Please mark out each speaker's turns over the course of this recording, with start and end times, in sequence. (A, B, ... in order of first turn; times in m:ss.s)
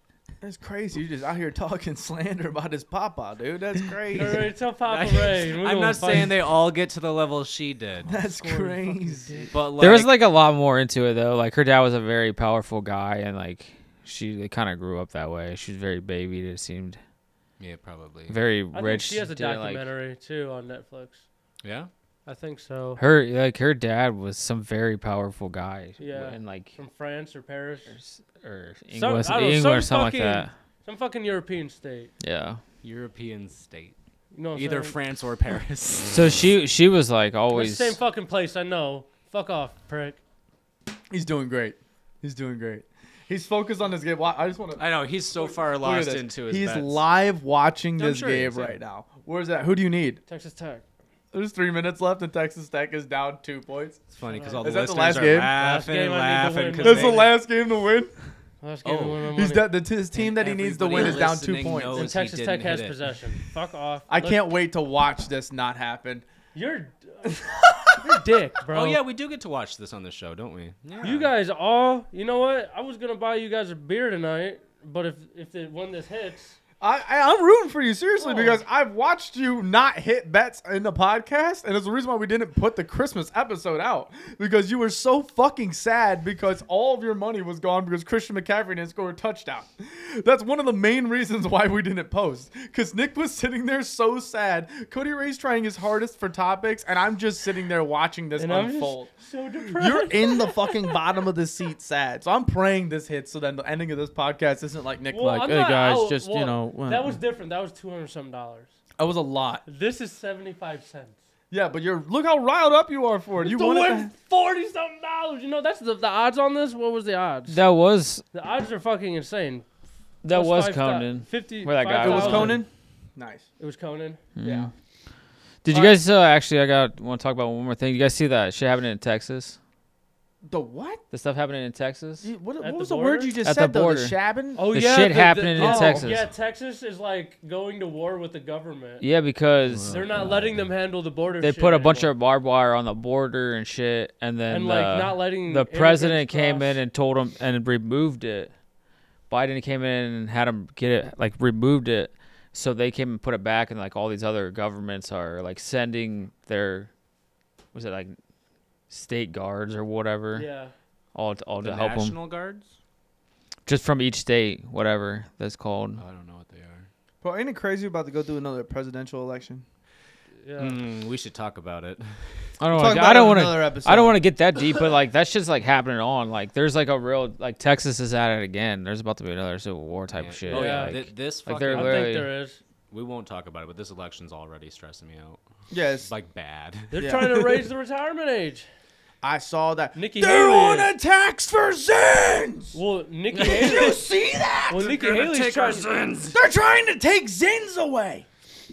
0:00.4-0:04.5 A
0:04.1-0:06.3 B
0:04.9-0:08.1 C
0:08.0-0:09.6 A
0:08.1-0:09.5 B
0:09.5-0:10.2 C
0:09.8-0:17.0 D
0:17.6-0:18.4 C
0:18.3-0:19.8 D
0:18.7-0:21.2 B
0:21.6-0:21.9 C
0:22.2-0:23.0 B
0:23.0-0:26.8 D
0:26.0-0:27.9 B
0:27.9-0:30.5 D
0:28.9-0:32.1 B
0:32.2-0:32.6 D
0:32.8-0:34.0 C
0:34.3-0:35.0 B
0:34.5-0:36.4 C
0:36.1-0:38.0 D
0:37.5-0:40.2 B
0:41.1-0:50.2 A
0:44.8-0:47.0 C
0:48.0-0:48.8 C
0:50.3-0:50.8 B
0:51.3-0:54.0 A
0:54.1-0:57.3 C
0:54.3-0:54.6 B
0:54.6-0:55.5 A
0:55.5-0:57.3 B
0:56.8-0:58.1 A
0:58.6-0:59.7 B
0:58.8-0:59.2 C
0:59.3-1:02.1 A
1:00.1-1:03.2 C
1:00.9-1:01.2 B
1:01.9-1:04.4 B
1:04.1-1:06.2 A
1:06.5-1:09.0 B
1:07.2-1:08.2 A
1:08.7-1:11.3 C
1:11.0-1:16.6 B
1:16.8-1:47.2 A
1:18.2-1:18.6 B
1:38.3-1:41.0 B
1:45.1-1:48.7 B
1:49.0-1:49.6 A
1:49.6-1:51.2 B
1:51.5-1:54.1 A
1:53.4-1:57.6 B
1:57.5-1:58.2 D
1:58.3-1:59.6 B
2:00.2-2:02.6 D
2:00.3-2:02.6 B
2:02.0-2:03.5 A
2:03.6-2:04.2 B
2:04.4-2:04.7 D
2:04.4-2:04.7 A
2:05.6-2:09.6 D
2:05.7-2:06.0 A
2:10.4-2:11.0 A
2:11.1-2:12.3 D
2:12.2-2:14.7 A
2:12.6-2:13.3 B
2:13.4-2:14.1 D
2:14.5-2:19.0 B
2:14.7-2:16.2 D
2:15.6-2:16.1 A
2:19.0-2:20.1 D
2:19.6-2:20.6 C
2:19.9-2:22.1 B
2:21.4-2:28.5 D
2:24.5-2:26.8 B
2:29.3-2:36.9 D
2:37.7-2:38.2 D
2:38.9-2:40.5 D
2:40.3-2:40.7 B
2:41.1-2:42.2 D
2:41.6-2:42.7 C
2:43.6-2:46.0 D
2:46.0-2:46.9 C
2:47.2-2:49.6 A
2:50.4-2:50.8 B
2:50.6-2:52.5 C
2:52.6-3:02.3 D
2:52.7-2:54.2 A
3:00.1-3:02.1 C
3:00.5-3:01.0 B
3:01.7-3:02.6 B
3:02.9-3:05.4 C
3:05.7-3:06.1 A
3:06.0-3:07.4 C
3:06.9-3:08.6 B
3:07.0-3:07.4 A
3:09.2-3:12.8 A
3:09.9-3:10.9 B
3:12.7-3:14.0 B
3:13.3-3:14.0 C
3:13.4-3:14.9 A
3:14.7-3:15.9 B
3:14.7-3:16.4 C
3:16.3-3:18.3 A